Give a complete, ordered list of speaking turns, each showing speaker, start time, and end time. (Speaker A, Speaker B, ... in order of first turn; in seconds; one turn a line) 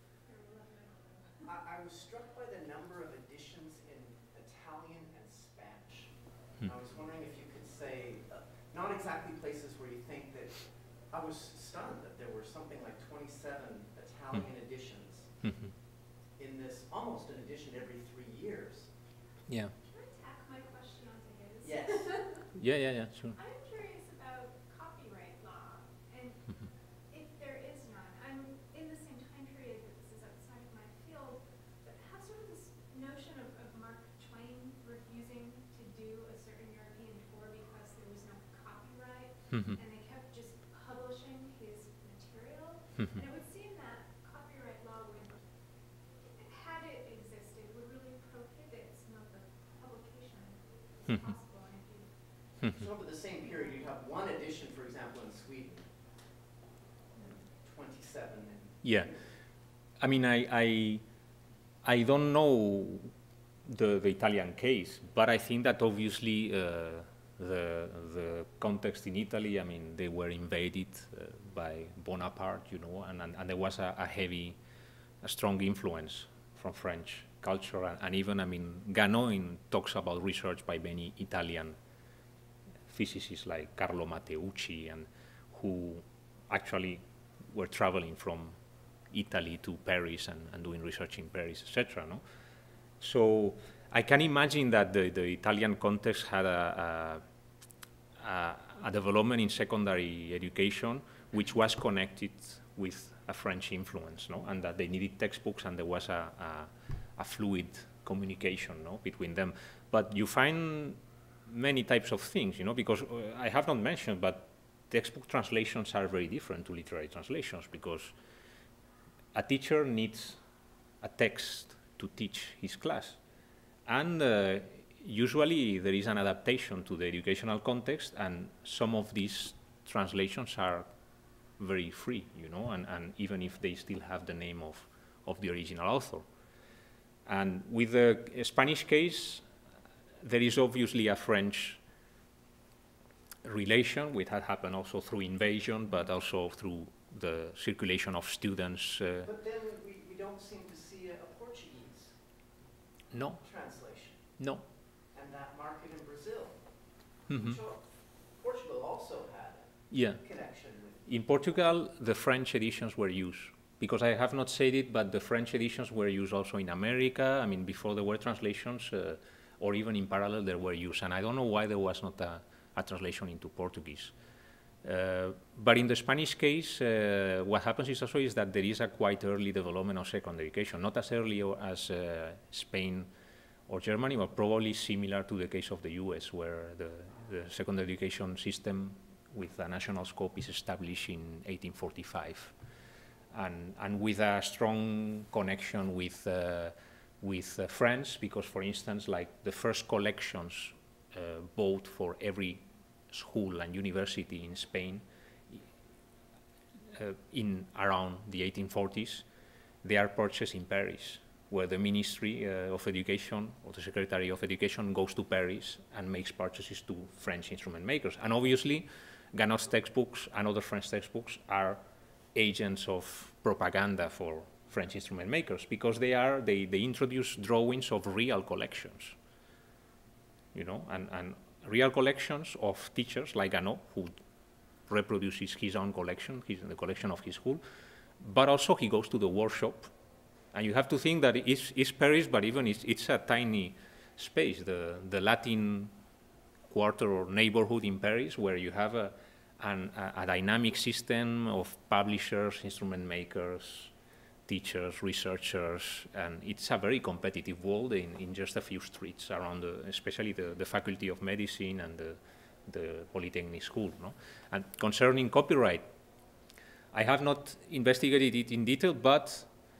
Speaker A: 0.2-1.3
Speaker B: 1.4-15.5
Speaker C: 15.4-15.7
Speaker B: 16.3-18.9
Speaker C: 19.5-19.7
Speaker A: 19.8-22.5
Speaker B: 21.6-22.2
Speaker C: 22.5-23.4
Speaker A: 23.3-52.2
Speaker C: 39.5-39.8
Speaker B: 52.7-55.9
Speaker A: 53.5-53.8
Speaker B: 57.1-59.3
Speaker C: 58.8-61.0
Speaker C: 61.8-63.1
Speaker C: 63.6-74.6
Speaker C: 75.2-81.8
Speaker C: 82.9-88.6
Speaker C: 89.1-92.2
Speaker C: 93.0-97.2
Speaker C: 98.2-118.1
Speaker C: 119.3-120.4
Speaker C: 121.0-123.2
Speaker C: 123.8-130.9
Speaker C: 131.6-136.3
Speaker C: 137.2-139.4
Speaker C: 140.2-141.8
Speaker C: 143.4-149.3
Speaker B: 149.2-152.2
Speaker C: 153.1-154.6
Speaker B: 153.4-154.4
Speaker B: 155.1-161.1
Speaker C: 157.3-157.6
Speaker C: 159.9-174.1
Speaker C: 174.8-183.1
Speaker C: 183.7-192.6
Speaker C: 193.3-205.7
Speaker C: 206.9-209.2
Speaker C: 209.8-221.8
Speaker C: 222.3-229.2
Speaker C: 230.5-234.2
Speaker C: 234.9-237.6
Speaker C: 238.2-239.9
Speaker C: 240.5-245.9
Speaker C: 246.7-253.9
Speaker C: 254.4-265.9
Speaker C: 266.9-269.5